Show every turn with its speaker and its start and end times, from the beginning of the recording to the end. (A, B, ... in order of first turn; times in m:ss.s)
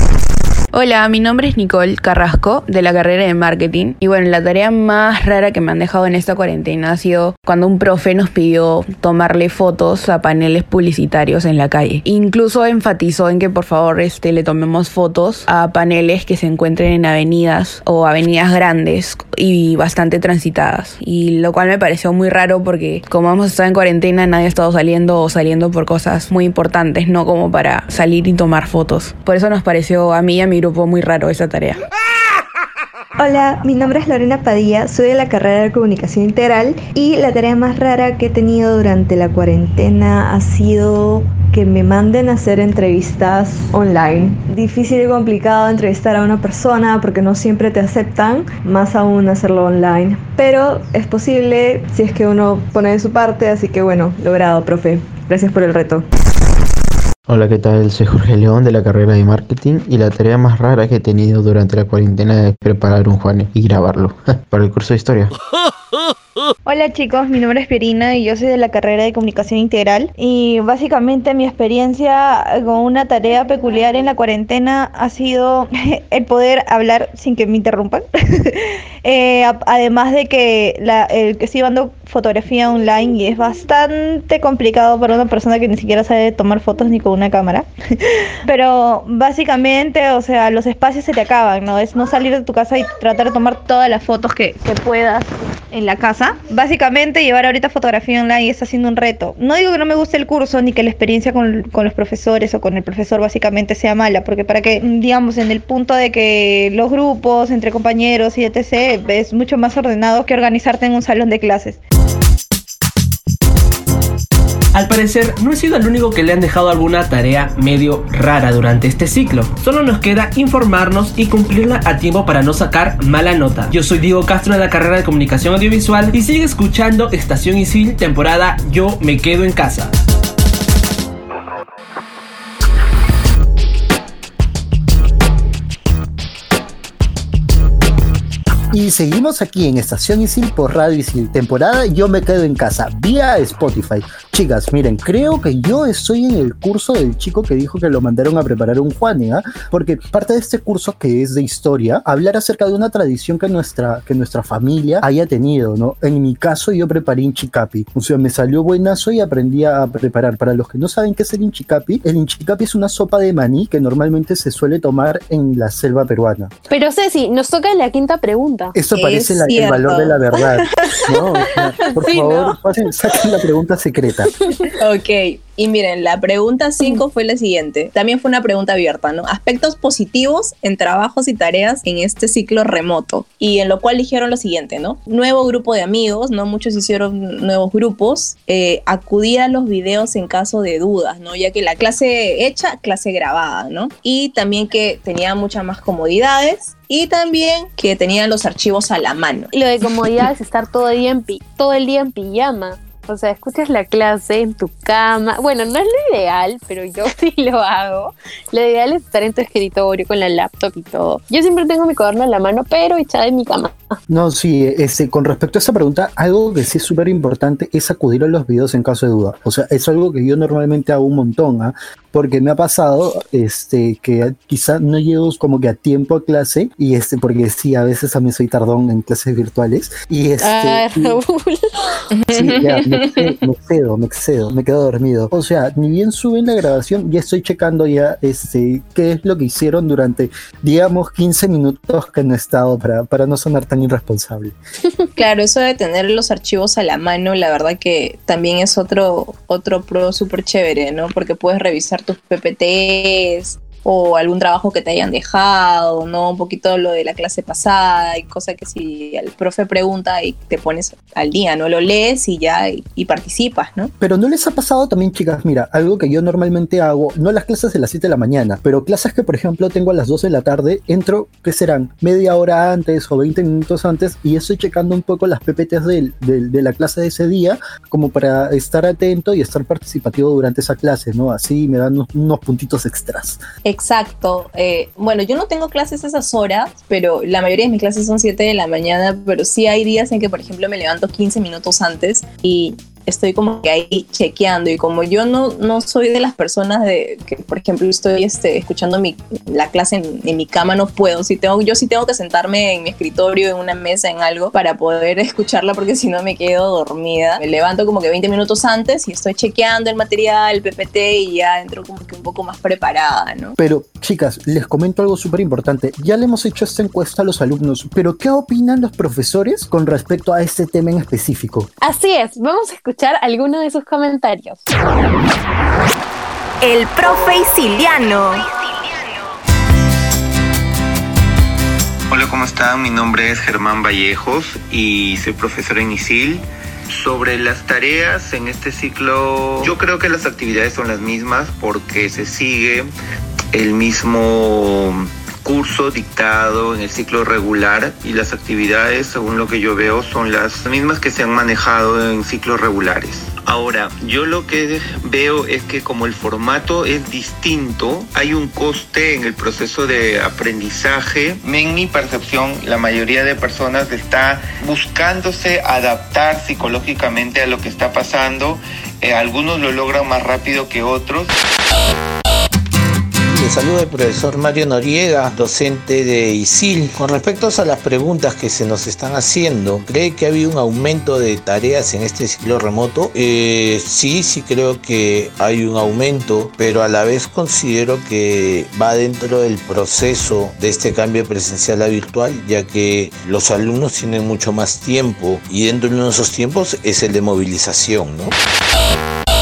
0:00.7-0:31.8 A
0:33.2-0:56.0 B
0:57.3-1:05.3 C
1:06.7-1:51.8 D
1:54.7-2:09.9 E
2:18.7-2:46.5 F
2:46.7-2:48.8 G
2:48.8-2:54.3 F
2:49.0-2:50.7 H
2:52.0-2:52.6 G
2:54.8-3:19.5 H
3:19.5-3:34.0 G
3:34.1-3:51.2 F
3:50.4-3:51.6 G
3:52.2-3:52.8 H
3:52.3-4:04.6 F
4:05.2-4:23.9 H
4:24.0-4:43.4 F
4:43.6-5:13.6 H
5:13.6-5:21.7 F
5:21.8-5:24.6 G
5:26.6-5:28.5 H
5:32.1-5:42.9 I
5:43.5-6:11.3 I
6:13.3-6:38.3 J